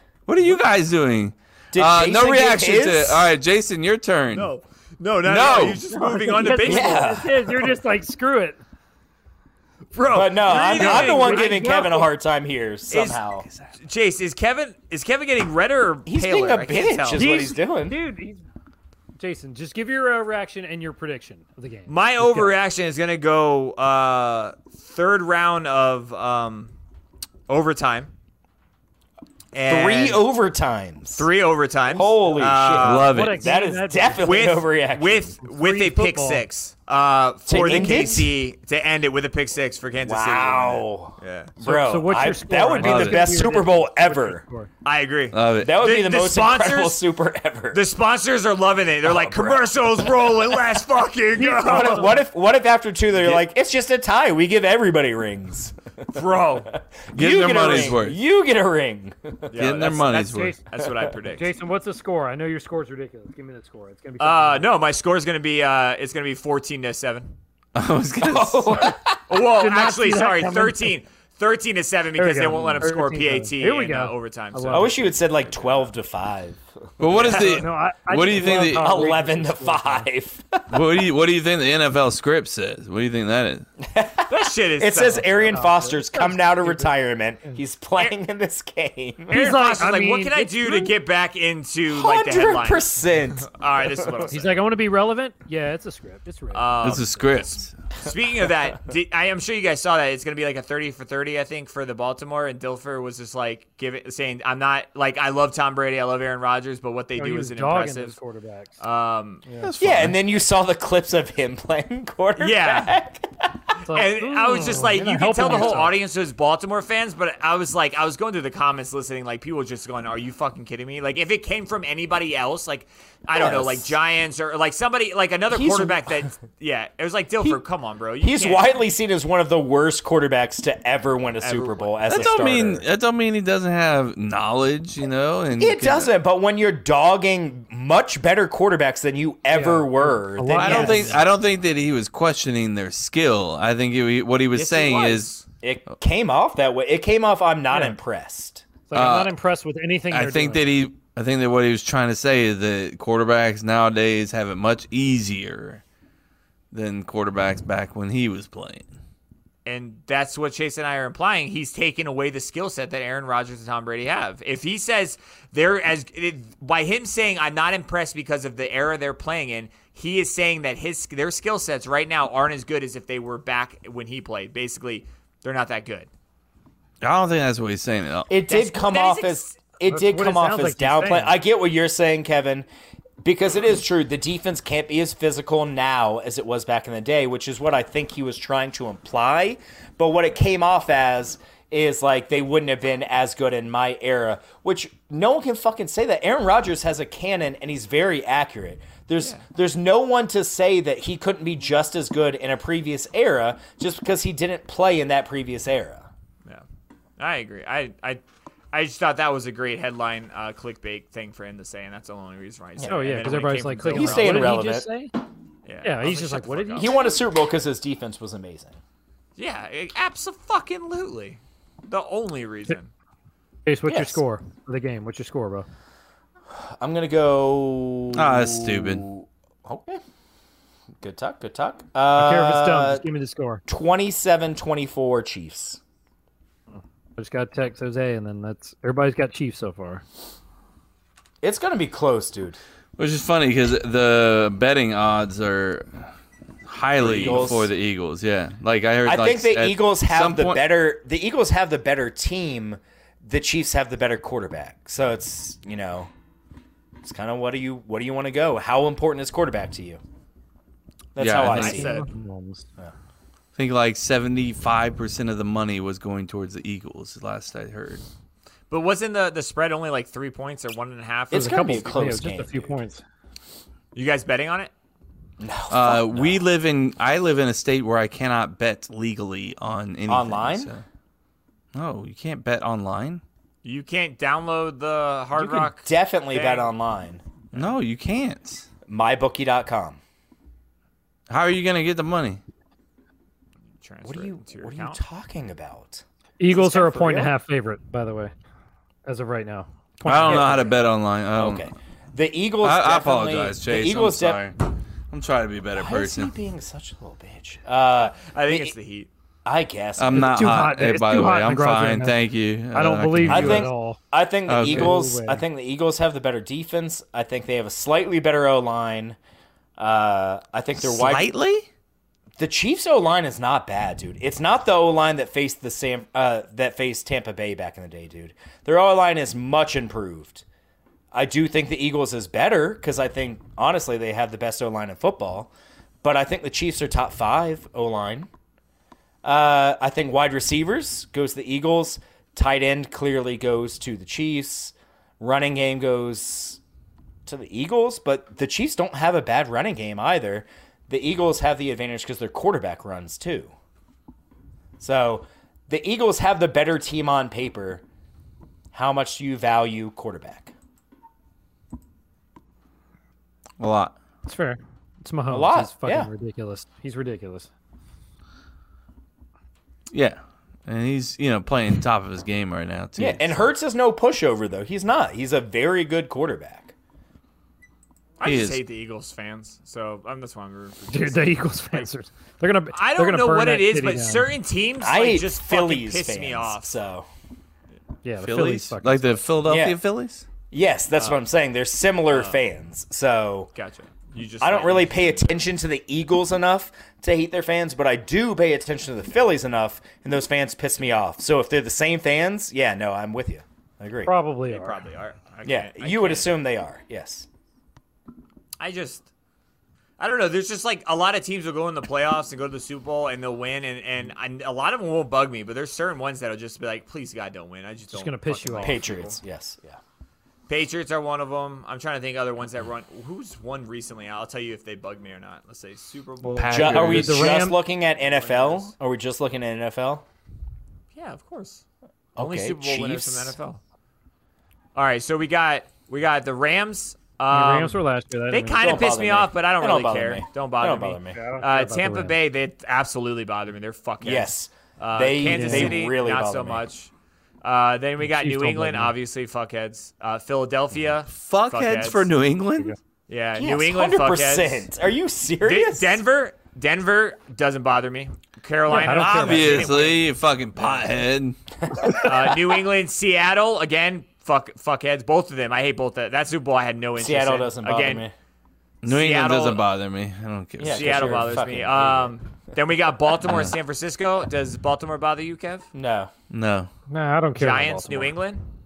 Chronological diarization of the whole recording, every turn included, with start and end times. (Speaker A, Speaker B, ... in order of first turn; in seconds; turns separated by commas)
Speaker A: 0.3-4.5, Speaker B: 1.7-3.3, Speaker C: 4.3-7.3, Speaker A: 5.2-5.8, Speaker D: 5.9-8.6, Speaker B: 6.6-7.4, Speaker C: 9.9-11.6, Speaker B: 10.1-13.4, Speaker D: 10.5-12.1, Speaker C: 12.9-13.2, Speaker C: 13.8-17.3, Speaker B: 16.1-18.0, Speaker D: 17.1-18.4, Speaker D: 19.2-22.5, Speaker C: 21.9-26.7, Speaker C: 27.5-28.1, Speaker C: 29.5-30.2, Speaker B: 29.7-31.3, Speaker C: 31.1-33.1, Speaker B: 31.9-35.3, Speaker A: 32.8-33.5, Speaker D: 33.1-34.3, Speaker C: 34.2-41.5, Speaker D: 35.4-36.4, Speaker B: 37.5-38.4, Speaker B: 40.0-44.4, Speaker D: 41.6-44.7, Speaker A: 42.8-43.3, Speaker C: 44.8-47.0, Speaker A: 45.3-45.7, Speaker B: 45.6-47.8, Speaker C: 47.7-52.1, Speaker B: 49.0-49.7, Speaker D: 51.4-52.2, Speaker B: 51.5-55.8, Speaker C: 56.1-56.7, Speaker B: 57.1-59.5, Speaker A: 57.1-58.2, Speaker C: 59.5-61.5, Speaker A: 59.5-60.5, Speaker D: 60.0-60.6, Speaker D: 61.3-64.7, Speaker C: 64.2-67.3, Speaker A: 67.7-69.0, Speaker B: 68.2-69.2, Speaker C: 69.3-75.9, Speaker D: 69.4-70.9, Speaker D: 72.2-75.1, Speaker B: 74.7-76.7, Speaker A: 77.0-79.1, Speaker C: 77.1-77.5, Speaker D: 77.2-80.0, Speaker B: 78.4-80.8, Speaker A: 80.7-83.6, Speaker B: 83.8-89.5, Speaker C: 84.3-85.7, Speaker D: 85.5-86.9, Speaker D: 89.3-90.9, Speaker C: 89.3-94.6, Speaker B: 91.9-93.5, Speaker D: 94.2-97.2, Speaker C: 96.5-108.2, Speaker A: 96.8-97.7, Speaker D: 107.2-108.8, Speaker C: 108.8-109.4, Speaker D: 109.5-109.7, Speaker A: 109.6-110.2, Speaker B: 109.8-113.7, Speaker C: 112.4-112.9, Speaker C: 113.8-128.7, Speaker D: 113.9-116.0, Speaker B: 123.3-123.9, Speaker B: 125.5-126.3, Speaker B: 128.2-132.8, Speaker C: 131.4-132.3, Speaker A: 132.1-136.1, Speaker B: 135.6-141.2, Speaker D: 139.5-141.2, Speaker A: 140.5-145.3, Speaker C: 144.5-145.4, Speaker B: 145.6-148.6, Speaker D: 147.7-147.9, Speaker D: 148.9-150.6, Speaker A: 148.9-149.3, Speaker A: 150.1-155.8, Speaker A: 156.7-158.9, Speaker C: 159.7-176.1, Speaker A: 177.0-178.3, Speaker B: 178.3-182.7, Speaker C: 178.5-179.5, Speaker D: 179.9-181.4, Speaker B: 183.2-206.1, Speaker C: 199.2-199.4, Speaker C: 207.2-214.5, Speaker B: 212.8-213.3, Speaker D: 212.8-215.1, Speaker B: 213.9-214.9, Speaker C: 215.6-217.0, Speaker D: 215.8-217.0, Speaker B: 216.8-218.8, Speaker C: 219.4-222.9, Speaker D: 223.6-225.7, Speaker B: 223.9-224.2, Speaker B: 226.5-230.0, Speaker A: 228.1-229.1, Speaker B: 231.0-233.0, Speaker D: 232.2-233.6, Speaker B: 233.7-235.8, Speaker D: 237.2-240.0, Speaker B: 241.4-242.6, Speaker A: 243.0-246.1, Speaker A: 246.7-250.6, Speaker B: 247.0-247.7, Speaker B: 249.0-256.1, Speaker B: 257.0-260.0, Speaker B: 261.1-261.9, Speaker A: 261.2-261.9, Speaker D: 261.4-262.7, Speaker C: 261.6-262.1, Speaker A: 263.6-268.0, Speaker C: 268.7-271.8, Speaker B: 271.3-272.8, Speaker D: 271.3-273.0, Speaker C: 273.9-274.7, Speaker B: 275.4-276.4, Speaker A: 275.7-280.8, Speaker B: 280.1-280.7, Speaker A: 281.7-283.2, Speaker C: 283.6-286.7, Speaker B: 285.3-287.2, Speaker A: 287.5-288.6, Speaker B: 288.9-290.0, Speaker A: 291.3-292.4, Speaker C: 293.8-295.0, Speaker B: 294.0-297.3, Speaker D: 296.4-298.3, Speaker D: 299.1-300.7, Speaker A: 300.0-301.7, Speaker B: 300.1-300.7, Speaker B: 301.4-304.4, Speaker A: 302.6-304.6, Speaker A: 305.1-306.3, Speaker B: 305.7-308.7, Speaker C: 308.1-309.1, Speaker B: 309.4-310.4, Speaker A: 310.0-313.7, Speaker D: 310.1-312.1, Speaker D: 312.7-314.0, Speaker B: 313.2-319.2, Speaker A: 314.5-314.9, Speaker D: 314.6-315.4, Speaker B: 319.8-321.3, Speaker A: 320.8-321.6, Speaker B: 322.4-330.4, Speaker B: 331.1-335.5, Speaker B: 336.0-338.3, Speaker B: 339.2-346.6, Speaker B: 347.2-353.5, Speaker B: 354.8-357.8, Speaker B: 358.7-360.5, Speaker A: 363.6-363.9, Speaker D: 364.2-367.5, Speaker B: 365.3-366.1, Speaker A: 369.9-373.4, Speaker B: 373.0-376.7, Speaker C: 378.2-381.2, Speaker A: 378.2-378.6, Speaker D: 380.9-384.3, Speaker C: 382.7-386.7, Speaker B: 384.8-387.1, Speaker D: 388.0-389.1, Speaker A: 388.2-390.2, Speaker B: 389.4-389.8, Speaker B: 390.5-393.5, Speaker C: 390.9-391.2, Speaker C: 392.1-392.4, Speaker C: 393.5-395.4, Speaker B: 394.4-404.1, Speaker D: 404.0-404.8, Speaker C: 404.5-406.3, Speaker B: 405.4-407.3, Speaker C: 408.6-409.1, Speaker C: 410.0-419.2, Speaker D: 417.9-418.8, Speaker B: 418.6-419.8, Speaker C: 420.5-426.9, Speaker A: 426.3-427.4, Speaker B: 426.5-430.0, Speaker D: 426.6-427.6, Speaker C: 428.0-428.7, Speaker C: 430.9-431.6, Speaker B: 432.1-433.3, Speaker C: 432.2-433.6, Speaker C: 434.7-446.9, Speaker D: 437.3-438.8, Speaker B: 438.6-441.2, Speaker D: 441.1-442.1, Speaker B: 444.0-446.6, Speaker D: 445.2-445.8, Speaker C: 447.4-452.1, Speaker D: 448.0-448.9, Speaker A: 451.1-452.8, Speaker C: 453.1-454.7, Speaker B: 453.4-456.0, Speaker C: 455.4-460.9, Speaker D: 458.7-459.8, Speaker A: 458.7-462.3, Speaker C: 462.0-468.1, Speaker B: 467.0-468.1, Speaker A: 468.8-471.3, Speaker C: 468.8-469.6, Speaker B: 470.6-472.1, Speaker C: 470.7-475.7, Speaker A: 473.2-473.5, Speaker B: 475.7-476.1, Speaker A: 476.3-476.7, Speaker D: 476.9-478.1, Speaker C: 477.3-478.5